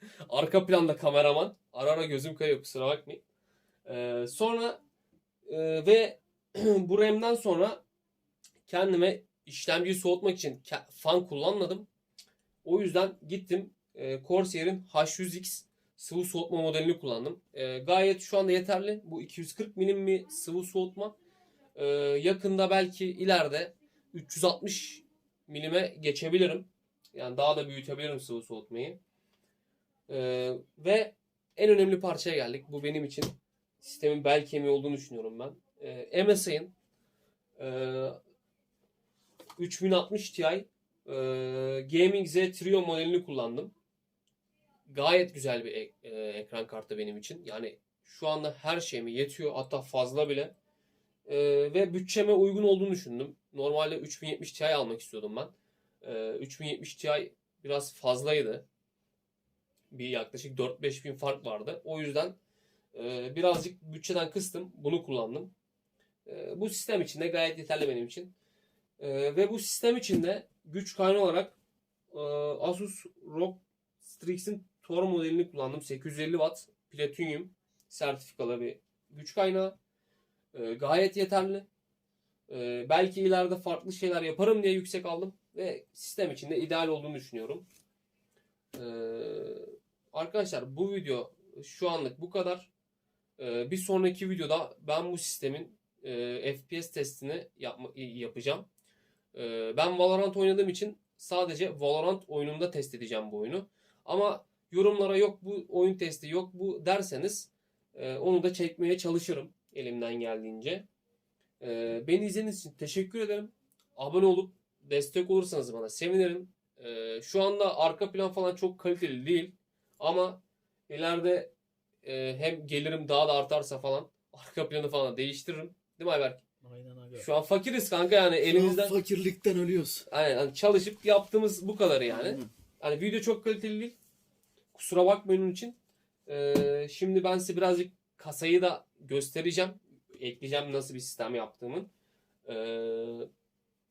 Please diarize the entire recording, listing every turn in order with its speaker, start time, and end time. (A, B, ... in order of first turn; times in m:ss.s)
0:00.2-0:03.2 A
0:03.9-0:04.8 A
0:05.5-0:07.8 A
0:08.7-0:11.9 A
0:12.6-0:21.2 A
0:21.8-0:29.0 A
0:30.1-0:36.7 A
0:37.6-0:38.2 A
0:39.6-0:43.7 A
0:44.9-0:50.5 A
0:51.3-0:58.6 A
0:59.9-1:02.4 A
1:02.9-1:05.5 A
1:06.3-1:08.3 A
1:09.0-1:11.6 A
1:12.1-1:19.8 A
1:20.5-1:21.7 A
1:22.5-1:27.6 A
1:28.7-1:32.7 A
1:33.4-1:38.7 A
1:39.3-1:50.9 A
1:51.6-2:01.5 A
2:02.0-2:06.4 A
2:06.6-2:07.3 B
2:07.2-2:09.0 A
2:08.5-2:10.1 B
2:10.1-2:14.0 A
2:12.1-2:12.5 B
2:14.7-2:21.9 A
2:22.4-2:23.3 A